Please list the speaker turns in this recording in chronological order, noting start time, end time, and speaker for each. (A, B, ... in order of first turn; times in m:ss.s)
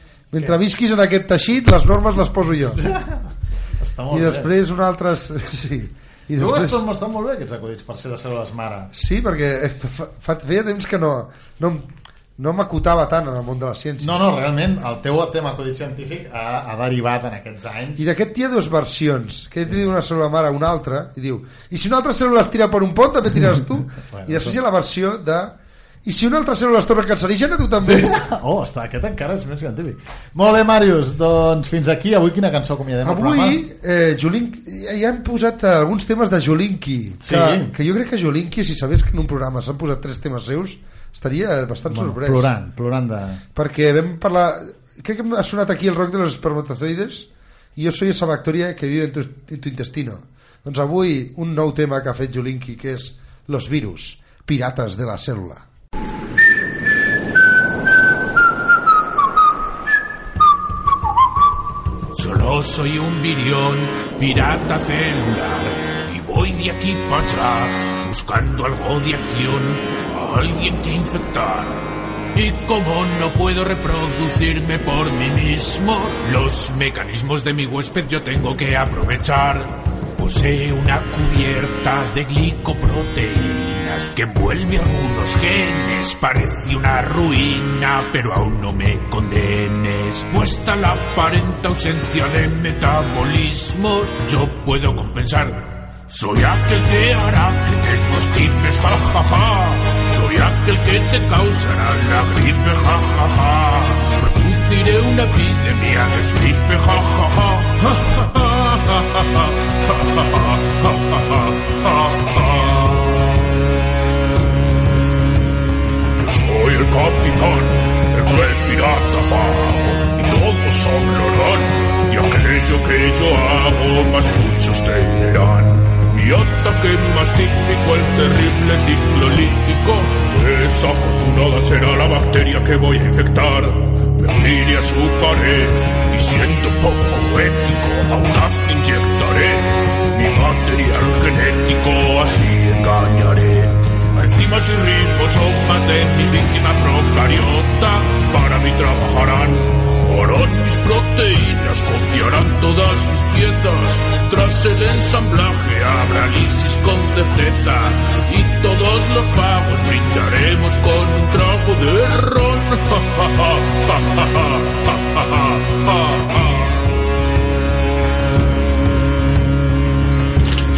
0:00.3-0:02.8 A
0:02.7-0:04.5 B
0:04.1-0:06.8 A
0:06.3-0:08.9 B
0:08.9-0:14.2 A
0:14.0-0:18.0 B
0:18.0-0:28.1 A
0:23.9-0:24.6 B
0:27.8-0:33.6 B
0:33.0-0:42.5 A
0:37.2-0:37.7 B
0:41.9-0:43.4 B
0:43.5-0:55.6 A
1:02.1-1:53.2 C
1:56.1-2:46.8 C